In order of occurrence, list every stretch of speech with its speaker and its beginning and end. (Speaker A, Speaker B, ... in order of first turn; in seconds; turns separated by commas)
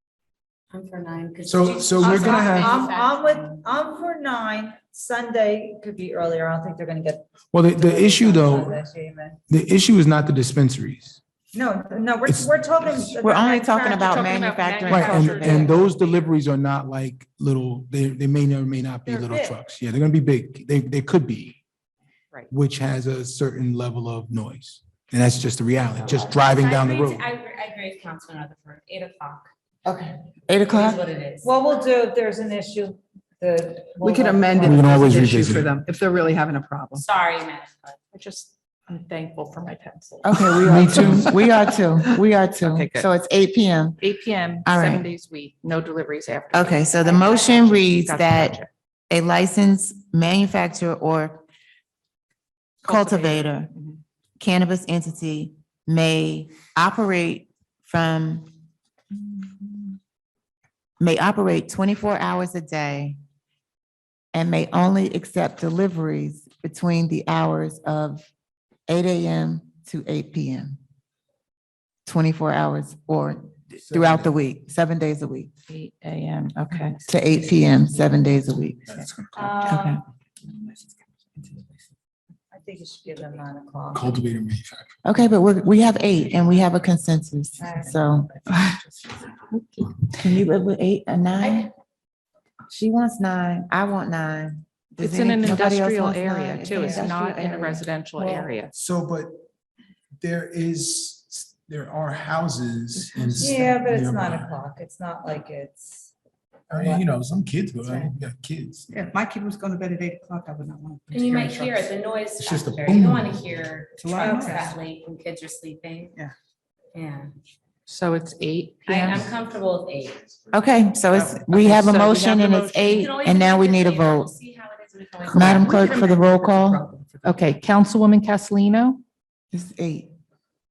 Speaker A: 0.7-3.6, Speaker B: 1.4-2.7, Speaker C: 2.0-9.4, Speaker B: 7.5-8.8, Speaker B: 9.5-11.2, Speaker C: 11.5-14.3, Speaker B: 12.2-13.2, Speaker D: 13.2-15.7, Speaker E: 14.0-16.3, Speaker B: 14.9-21.6, Speaker C: 19.1-19.6, Speaker B: 22.5-27.3, Speaker A: 26.0-29.5, Speaker D: 29.8-31.0, Speaker A: 30.6-31.5, Speaker C: 31.4-35.2, Speaker F: 34.0-37.1, Speaker B: 34.6-35.8, Speaker A: 36.9-38.0, Speaker E: 38.1-41.1, Speaker D: 40.2-44.0, Speaker B: 40.6-41.4, Speaker E: 42.6-43.1, Speaker E: 44.0-48.7, Speaker D: 44.6-45.1, Speaker D: 46.5-48.6, Speaker A: 47.0-47.5, Speaker D: 49.1-51.4, Speaker E: 52.8-54.0, Speaker D: 52.8-53.7, Speaker D: 54.4-58.5, Speaker D: 59.1-59.9, Speaker D: 61.0-63.2, Speaker D: 64.3-68.2, Speaker D: 68.9-70.8, Speaker D: 72.0-75.5, Speaker B: 73.8-74.3, Speaker E: 75.7-77.1, Speaker D: 77.1-79.0, Speaker B: 78.9-79.9, Speaker A: 79.3-80.0, Speaker D: 79.7-80.0, Speaker F: 80.4-81.8, Speaker C: 82.5-84.2, Speaker B: 83.9-85.2, Speaker D: 85.0-88.3, Speaker C: 87.6-88.6, Speaker E: 88.5-88.8, Speaker E: 89.4-90.1, Speaker D: 90.2-91.7, Speaker A: 91.4-91.7, Speaker D: 92.7-98.5, Speaker E: 95.0-98.7, Speaker B: 98.7-99.4, Speaker B: 100.2-104.6, Speaker C: 103.4-106.1, Speaker B: 106.7-109.1, Speaker F: 106.7-107.0, Speaker F: 108.9-111.9, Speaker A: 111.1-116.2, Speaker B: 112.4-113.5, Speaker F: 114.0-114.8, Speaker C: 114.2-114.8, Speaker A: 116.9-117.3, Speaker E: 117.9-119.2, Speaker A: 118.8-120.2, Speaker D: 120.5-124.3, Speaker E: 121.1-123.1, Speaker A: 122.9-126.0, Speaker F: 125.2-127.6, Speaker D: 125.3-126.8, Speaker E: 127.2-129.0, Speaker D: 129.5-130.1